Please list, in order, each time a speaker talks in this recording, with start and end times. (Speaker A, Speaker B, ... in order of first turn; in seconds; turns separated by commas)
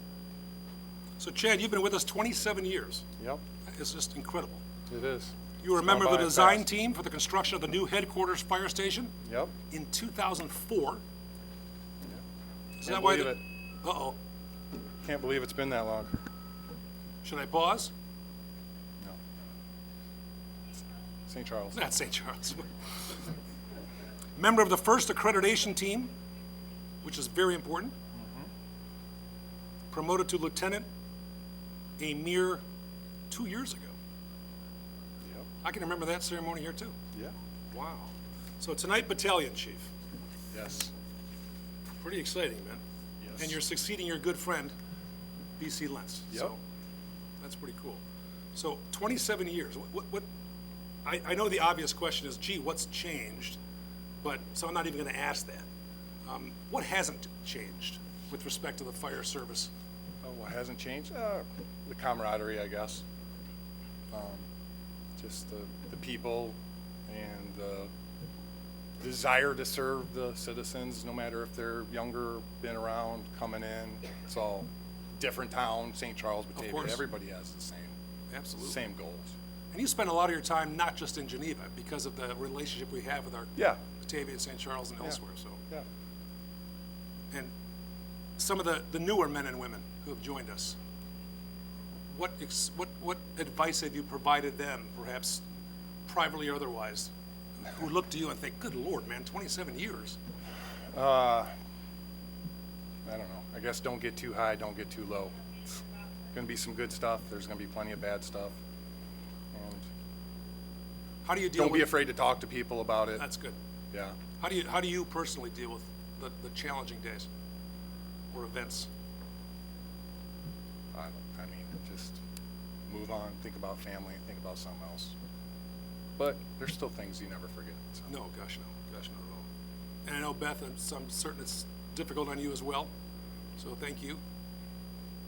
Speaker A: 1.2-3.0, Speaker A: 3.7-4.6, Speaker B: 4.9-6.7, Speaker A: 5.6-9.1, Speaker B: 9.2-9.5, Speaker A: 9.7-11.0, Speaker A: 12.8-14.2, Speaker B: 12.8-13.4, Speaker B: 15.0-16.2, Speaker A: 17.2-17.9, Speaker B: 21.3-21.8, Speaker A: 21.7-23.2, Speaker A: 24.4-26.1, Speaker A: 27.0-27.9, Speaker B: 28.1-28.5, Speaker A: 29.9-30.8, Speaker A: 32.0-32.6, Speaker A: 33.3-34.0, Speaker A: 35.6-36.9, Speaker A: 37.7-39.9, Speaker B: 40.5-40.9, Speaker A: 42.0-42.8, Speaker B: 43.2-43.6, Speaker A: 43.4-44.7, Speaker A: 45.6-46.6, Speaker A: 47.4-48.0, Speaker A: 48.5-50.2, Speaker A: 51.0-53.6, Speaker A: 54.2-55.7, Speaker A: 56.2-59.7, Speaker B: 60.2-63.0, Speaker B: 64.1-64.5, Speaker B: 65.2-66.6, Speaker B: 67.1-67.9, Speaker B: 69.0-78.0, Speaker A: 76.6-77.0, Speaker A: 78.3-78.8, Speaker B: 78.6-79.3, Speaker A: 79.7-85.6, Speaker B: 83.6-83.8, Speaker A: 88.4-90.8, Speaker A: 92.1-95.4, Speaker A: 96.1-100.2, Speaker B: 100.9-101.5, Speaker B: 103.0-105.8, Speaker B: 106.3-108.6, Speaker B: 109.5-109.9, Speaker A: 111.2-112.0, Speaker B: 111.5-113.2, Speaker A: 113.1-113.6, Speaker B: 113.9-114.2, Speaker A: 114.4-117.3, Speaker A: 118.3-118.9, Speaker B: 120.9-122.2, Speaker B: 122.9-125.1, Speaker B: 126.2-128.1, Speaker A: 128.1-129.5, Speaker A: 130.1-132.9, Speaker A: 133.6-134.2